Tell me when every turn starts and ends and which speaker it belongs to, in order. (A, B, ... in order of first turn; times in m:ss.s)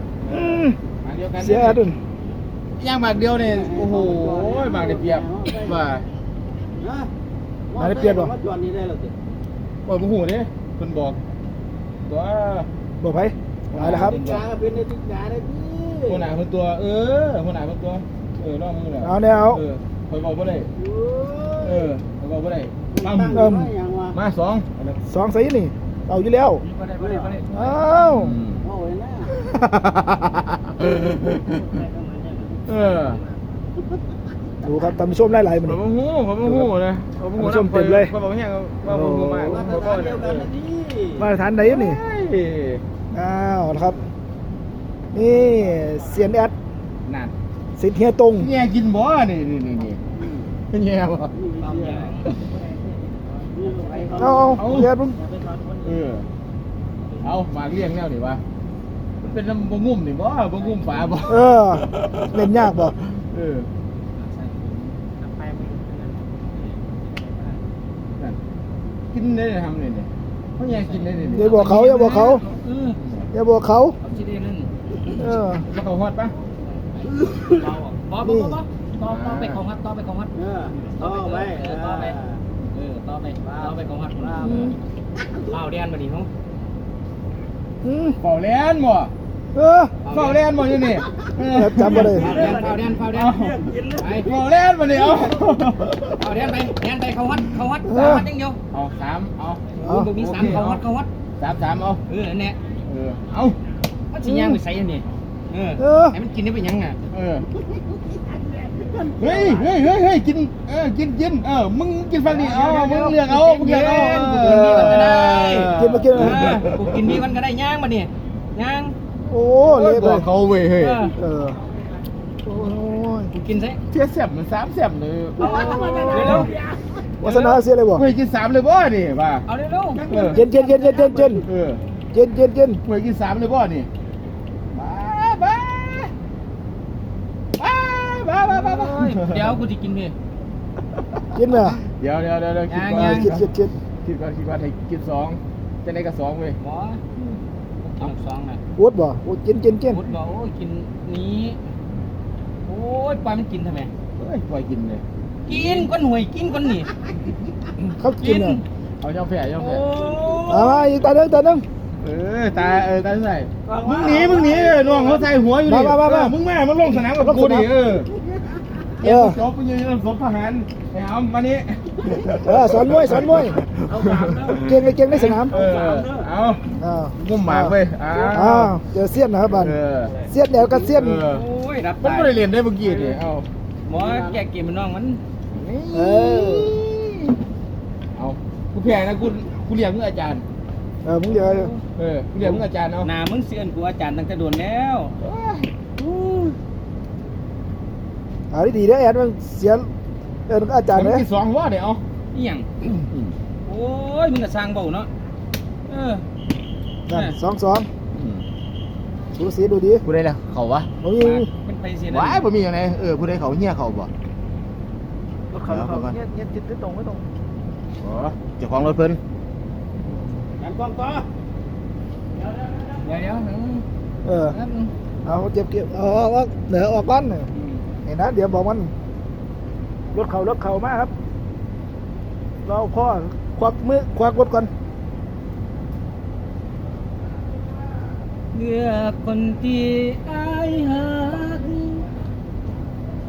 0:00.2-0:00.8 A
0:01.0-0:01.8 B
0:01.4-0:02.0 A
0:02.8-0:06.0 B
0:03.4-0:05.8 C
0:06.8-0:07.1 C
0:07.7-0:09.1 C
0:07.8-0:08.3 A
0:09.8-0:11.2 B
0:12.0-0:12.7 B
0:13.0-0:14.2 A
0:13.7-0:14.4 B
0:13.9-0:16.3 C
0:16.1-0:20.7 B
0:19.0-0:19.6 A
0:20.8-0:21.9 C
0:21.6-0:23.5 B
0:22.9-0:24.2 C
0:23.3-0:23.7 A
0:24.1-0:24.7 B
0:25.0-0:26.6 A
0:26.6-0:27.8 D
0:27.0-0:27.4 C
0:27.5-0:28.4 A
0:28.0-0:28.7 B
0:28.6-0:29.4 C
0:29.3-0:31.7 B
0:31.5-0:33.4 C
0:32.7-0:33.2 B
0:34.6-0:35.8 A
0:35.6-0:40.5 B
0:37.4-0:38.1 A
0:38.8-0:39.8 A
0:39.5-0:41.3 C
0:41.2-0:42.0 A
0:41.6-0:42.8 B
0:43.1-0:44.0 A
0:45.1-0:46.5 A
0:47.0-0:47.3 B
0:47.8-0:48.5 A
0:48.4-0:50.0 B
0:50.7-0:51.4 B
0:51.3-0:54.6 C
0:51.6-0:52.3 D
0:54.2-0:55.2 A
0:54.5-0:55.0 B
0:55.2-0:55.8 C
0:55.8-0:56.3 B
0:57.2-0:58.4 B
0:59.2-1:03.7 B
1:01.2-1:03.0 A
1:04.2-1:05.0 D
1:05.2-1:07.6 C
1:09.1-1:11.6 B
1:10.7-1:13.0 D
1:11.3-1:12.4 A
1:13.0-1:13.3 B
1:13.3-1:14.0 A
1:14.0-1:14.7 D
1:15.2-1:15.6 A
1:15.6-1:16.3 B
1:17.5-1:22.2 D
1:18.2-1:18.6 A
1:19.0-1:19.6 B
1:20.4-1:22.4 C
1:22.7-1:24.7 D
1:23.4-1:24.8 C
1:24.4-1:24.8 A
1:25.4-1:26.3 D
1:27.8-1:28.2 A
1:28.2-1:29.1 B
1:29.5-1:30.0 A
1:30.0-1:30.4 D
1:30.1-1:36.2 B
1:31.5-1:32.3 A
1:31.8-1:33.4 D
1:31.9-1:34.3 C
1:36.1-1:38.6 D
1:37.8-1:38.3 A
1:38.7-1:40.8 B
1:39.8-1:41.1 D
1:39.8-1:40.1 A
1:41.4-1:42.0 B
1:42.0-1:42.6 D
1:42.8-1:43.6 B
1:44.1-1:47.0 D
1:44.2-1:44.6 A
1:45.8-1:46.2 A
1:47.1-1:47.5 B
1:48.1-1:49.7 C
1:49.1-1:57.1 B
1:52.2-1:59.0 D
1:54.2-1:55.1 A
1:55.7-1:56.6 A
1:59.2-2:00.3 A
1:59.6-2:01.1 B
2:00.8-2:01.2 D
2:01.2-2:01.6 A
2:02.4-2:03.3 A
2:03.3-2:03.8 D
2:03.9-2:06.5 B
2:05.4-2:07.1 C
2:05.4-2:06.5 D
2:07.2-2:08.0 A
2:07.2-2:09.4 B
2:09.5-2:10.0 D
2:09.9-2:11.4 C
2:10.0-2:10.4 B
2:10.3-2:11.4 A
2:11.4-2:11.8 B
2:12.1-2:12.8 A
2:12.8-2:13.9 B
2:14.7-2:16.1 B
2:17.6-2:19.6 B
2:18.5-2:20.1 D
2:21.3-2:21.8 A
2:21.6-2:23.5 B
2:22.7-2:23.3 D
2:22.9-2:23.7 A
2:24.0-2:26.6 B
2:26.6-2:27.0 D
2:27.8-2:28.6 D
2:28.8-2:30.0 A
2:29.9-2:31.6 D
2:32.6-2:33.9 D
2:34.2-2:35.9 B
2:35.4-2:36.9 D
2:37.9-2:38.6 A
2:38.2-2:38.6 D
2:39.0-2:39.8 B
2:39.6-2:40.9 D
2:40.5-2:41.6 A
2:42.0-2:48.1 B
2:43.6-2:45.3 C
2:45.6-2:46.4 A
2:47.0-2:47.7 A
2:49.0-2:58.8 B
2:49.0-2:49.4 A
2:52.4-2:53.6 A
2:53.9-2:56.3 C
2:54.5-2:55.6 A
2:56.8-3:01.2 A
2:59.5-3:00.1 B
3:00.9-3:01.4 B
3:01.2-3:02.4 D
3:02.0-3:03.5 B
3:02.8-3:03.2 C
3:03.8-3:05.2 D
3:03.9-3:04.4 C
3:05.5-3:07.4 B
3:05.9-3:06.8 A
3:08.2-3:10.4 B
3:11.0-3:11.7 A
3:11.3-3:11.8 D
3:12.0-3:13.1 B
3:12.4-3:15.1 D
3:15.2-3:15.7 B
3:16.0-3:16.5 D
3:18.5-3:19.9 A
3:20.5-3:21.2 A
3:20.9-3:22.0 B
3:22.3-3:22.7 D
3:23.6-3:25.1 D
3:25.9-3:26.2 D
3:27.1-3:27.9 A
3:27.1-3:27.3 D
3:28.1-3:28.4 B
3:29.3-3:30.0 A
3:30.0-3:30.9 B
3:31.0-3:31.5 A
3:31.2-3:32.4 D
3:32.1-3:34.1 B
3:35.5-3:37.2 A
3:35.6-3:36.2 B
3:38.0-3:39.2 B
3:40.1-3:40.4 A
3:40.6-3:41.3 C
3:43.0-3:43.8 D
3:44.2-3:44.6 A
3:44.5-3:44.9 D
3:45.2-3:47.5 A
3:48.0-3:48.9 A
3:50.1-3:51.1 A
3:52.6-3:54.7 A
3:58.5-4:02.0 D